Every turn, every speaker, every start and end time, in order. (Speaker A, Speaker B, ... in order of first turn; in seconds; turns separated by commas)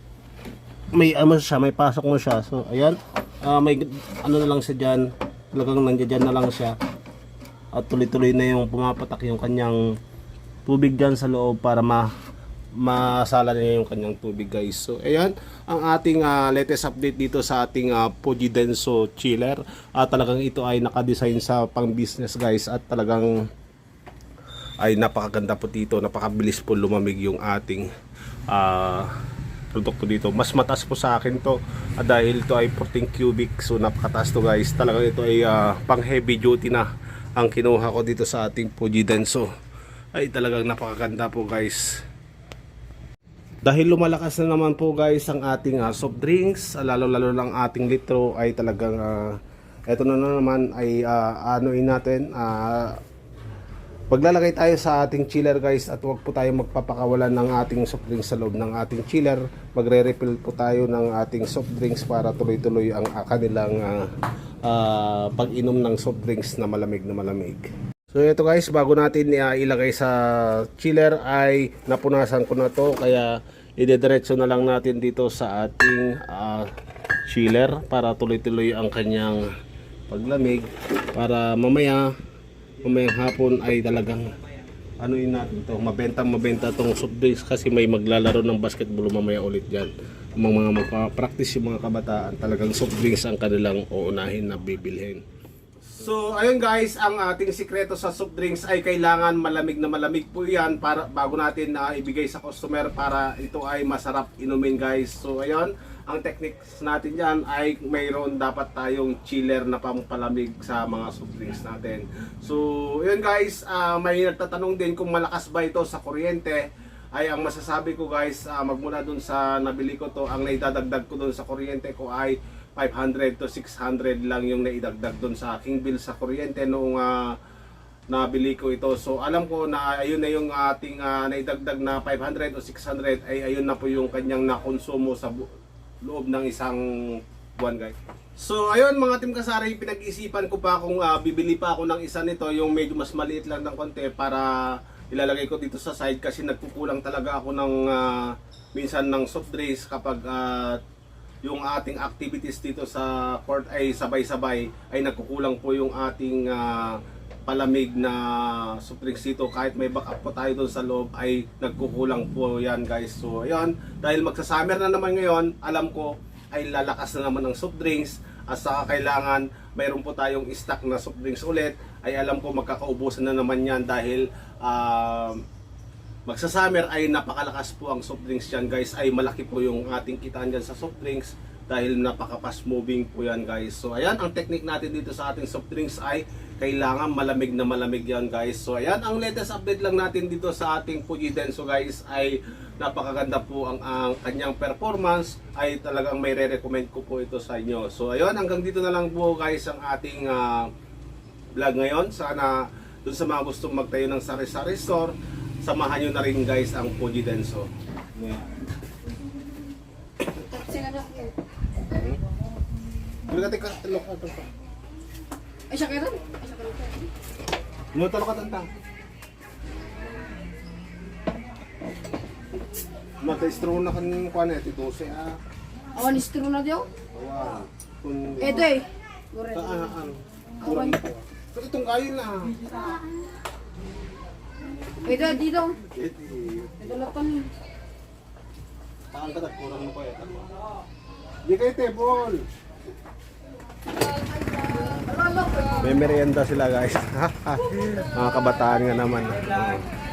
Speaker A: 0.9-6.8, Speaker A: 7.7-9.8, Speaker A: 10.7-12.1, Speaker A: 12.8-23.3, Speaker A: 24.8-27.9, Speaker A: 28.5-29.1, Speaker A: 29.7-36.9, Speaker A: 37.4-39.5, Speaker A: 40.1-41.8, Speaker A: 43.6-49.4, Speaker A: 49.9-53.0, Speaker A: 54.1-64.1, Speaker A: 64.6-76.7, Speaker A: 77.3-79.4, Speaker A: 80.1-82.1, Speaker A: 82.8-84.2, Speaker A: 85.0-95.2, Speaker A: 95.8-116.6, Speaker A: 117.1-127.3, Speaker A: 128.1-135.5, Speaker A: 136.0-150.8, Speaker A: 151.4-175.4, Speaker A: 176.3-200.7, Speaker A: 201.6-208.4, Speaker B: 210.3-211.3, Speaker A: 211.9-212.2, Speaker A: 213.3-214.5, Speaker B: 215.7-217.1, Speaker A: 217.9-218.7, Speaker A: 223.2-225.3, Speaker B: 225.9-226.9, Speaker A: 227.1-228.7, Speaker B: 228.4-229.8, Speaker A: 229.5-232.6, Speaker B: 230.6-231.0, Speaker B: 235.0-235.8, Speaker A: 235.8-236.9, Speaker B: 236.8-237.5, Speaker A: 239.1-240.5, Speaker A: 241.5-242.4, Speaker B: 244.9-245.9, Speaker A: 245.8-249.8